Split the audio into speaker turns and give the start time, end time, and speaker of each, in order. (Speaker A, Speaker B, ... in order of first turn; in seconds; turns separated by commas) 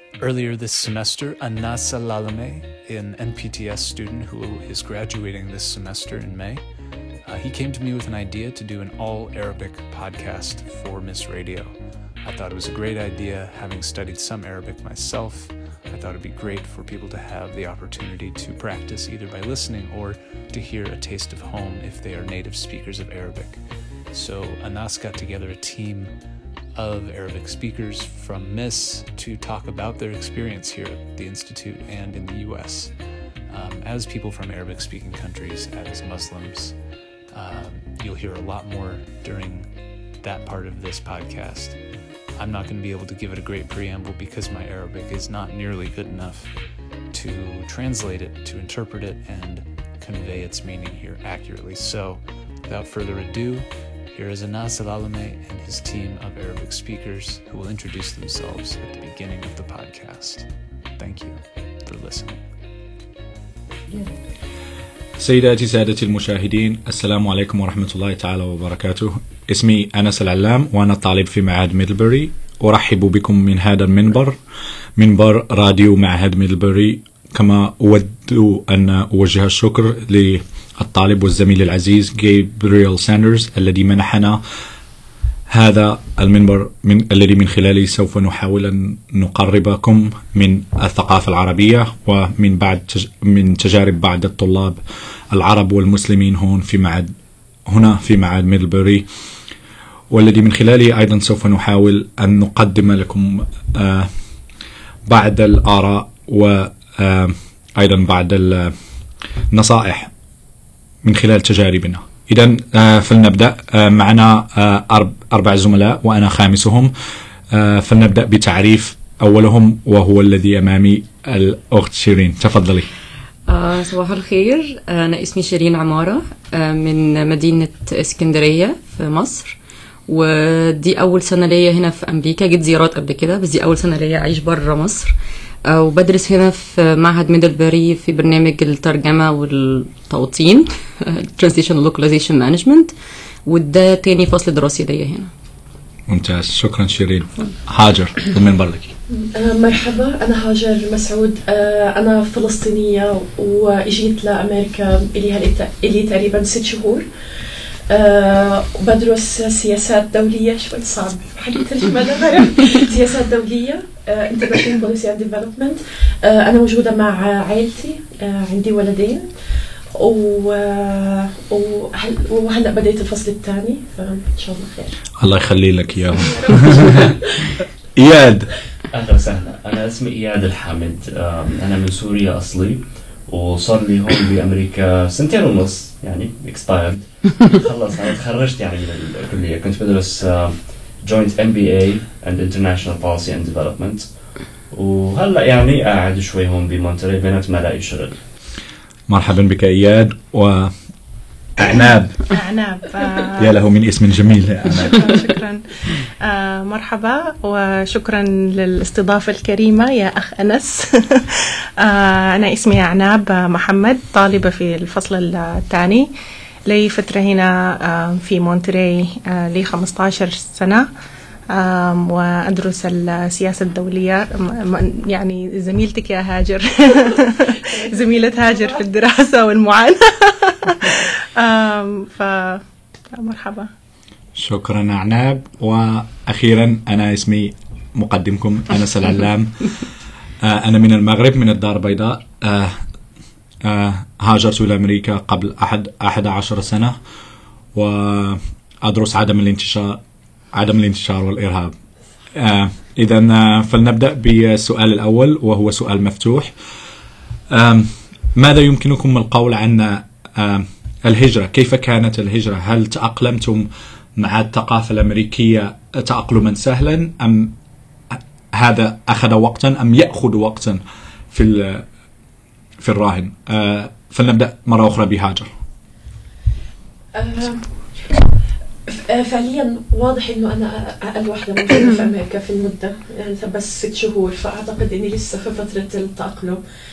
Speaker A: 0.2-62.5, Speaker B: 65.2-74.4, Speaker B: 75.0-84.4, Speaker B: 85.5-94.8, Speaker B: 95.3-97.1, Speaker B: 97.7-99.0, Speaker B: 100.1-104.1, Speaker B: 105.1-108.7, Speaker B: 109.5-110.1, Speaker B: 111.0-116.9, Speaker B: 117.5-122.9, Speaker C: 123.5-135.1, Speaker C: 135.7-142.9, Speaker C: 143.4-145.3, Speaker B: 146.1-148.9, Speaker D: 149.1-157.0, Speaker D: 157.9-169.2, Speaker D: 169.9-174.9, Speaker B: 175.2-177.1, Speaker D: 176.2-177.6, Speaker B: 177.9-178.5, Speaker E: 178.9-194.1, Speaker E: 194.7-198.2, Speaker B: 199.1-200.7, Speaker B: 201.6-202.2, Speaker F: 202.3-203.5, Speaker B: 203.4-205.1, Speaker F: 204.7-216.1, Speaker F: 216.7-220.9, Speaker F: 221.5-232.6, Speaker D: 227.0-228.9, Speaker F: 233.1-233.7, Speaker B: 234.3-239.7, Speaker B: 240.4-242.8, Speaker B: 243.6-246.9, Speaker B: 247.7-250.0, Speaker B: 250.5-251.7, Speaker B: 252.3-256.5, Speaker B: 257.5-267.5, Speaker B: 268.1-270.8, Speaker B: 271.3-271.8, Speaker B: 272.8-275.5, Speaker D: 277.1-278.2, Speaker D: 278.9-286.6